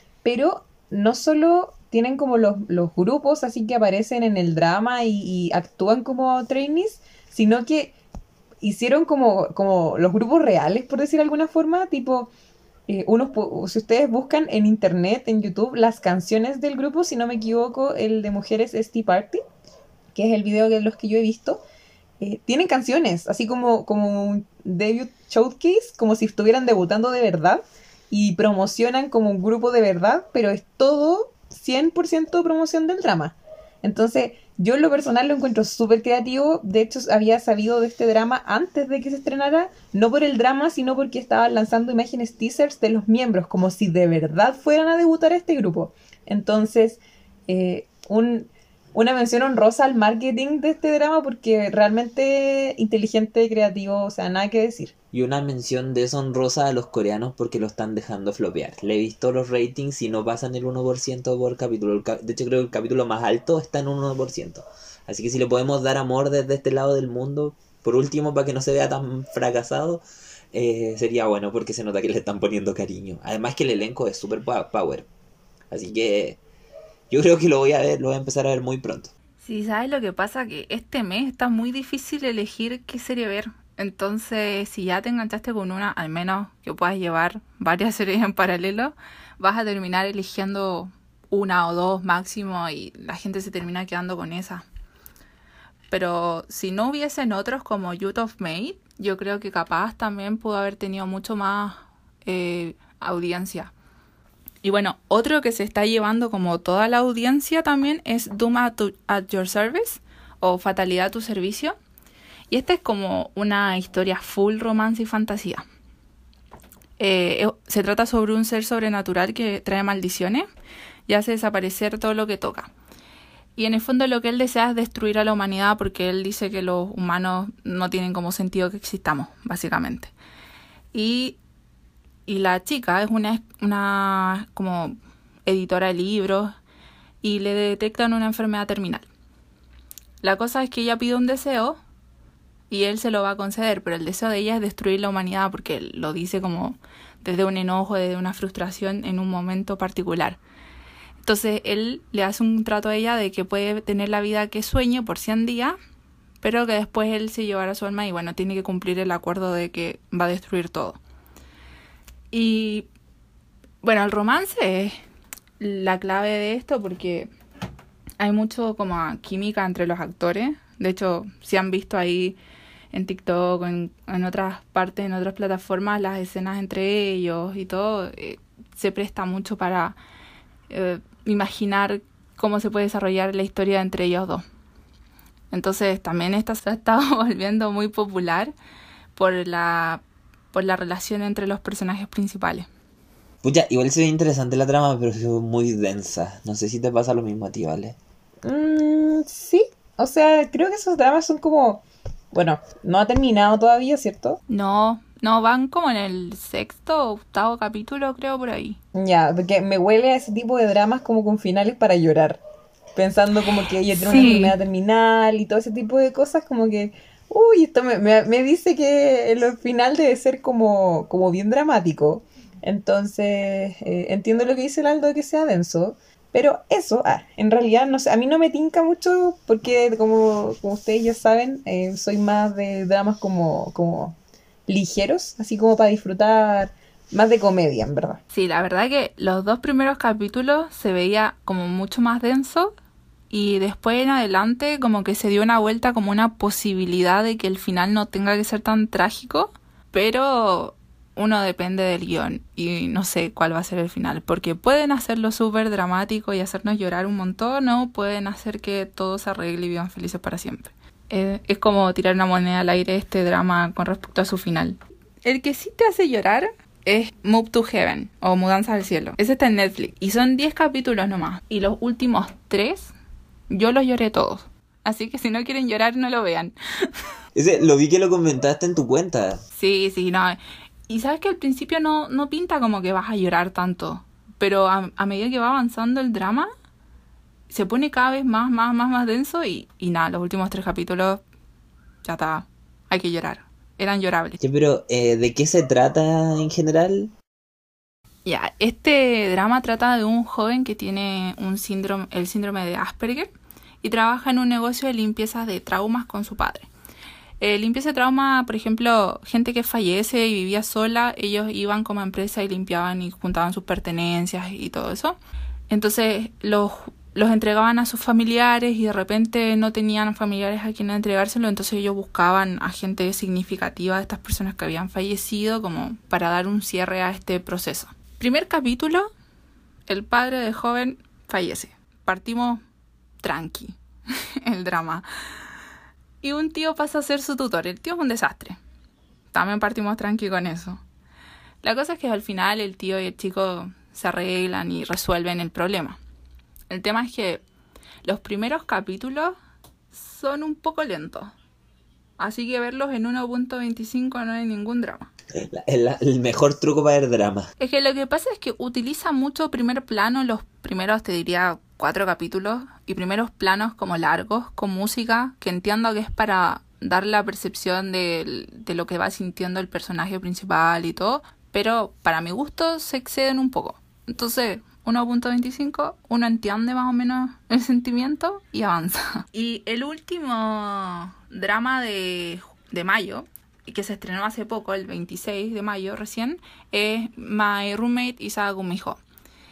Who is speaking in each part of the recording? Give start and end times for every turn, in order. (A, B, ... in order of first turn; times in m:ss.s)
0:00.2-0:07.9 A
0:08.6-0:12.3 A
0:12.9-0:19.4 A
0:20.2-0:21.6 A
0:22.2-0:54.9 A
0:55.1-1:10.0 B
1:10.5-1:15.1 B
1:15.7-1:16.4 B
1:17.1-1:19.1 B
1:19.4-1:34.6 C
1:35.9-1:43.7 C
1:44.6-1:51.8 C
1:52.5-1:55.6 C
1:57.0-2:00.5 C
2:01.1-2:02.7 C
2:03.6-2:10.1 C
2:10.9-2:11.4 C
2:12.3-2:16.5 C
2:17.2-2:19.1 C
2:20.2-2:21.8 C
2:22.7-2:30.4 C
2:31.2-2:35.8 C
2:36.4-2:41.0 C
2:42.3-2:42.9 C
2:43.8-2:45.0 C
2:45.6-2:47.3 C
2:48.2-2:52.4 C
2:52.9-3:00.0 C
3:00.7-3:04.4 C
3:05.5-3:08.5 C
3:09.2-3:10.0 C
3:10.5-3:12.7 C
3:13.4-3:18.0 B
3:18.4-3:24.4 A
3:24.5-3:28.8 C
3:28.9-3:32.4 A
3:33.0-3:54.2 A
3:33.9-3:34.6 C
3:54.7-3:58.2 A
3:58.3-4:02.7 C
4:03.3-4:32.9 C
4:33.5-4:36.6 C
4:37.4-4:39.4 B
4:39.6-4:46.5 C
4:47.5-4:51.2 C
4:52.0-4:54.4 C
4:54.4-4:57.1 B
4:58.2-5:03.3 C
5:03.8-5:06.7 C
5:07.4-5:15.2 C
5:15.7-5:29.1 C
5:29.9-5:32.6 C
5:33.2-5:35.1 C
5:36.2-5:38.6 C
5:39.3-5:40.8 C
5:41.6-5:46.0 C
5:46.7-5:47.4 C
5:48.0-5:49.4 C
5:49.9-5:51.3 C
5:52.2-5:55.1 C
5:55.4-5:57.5 B
5:57.6-6:29.0 C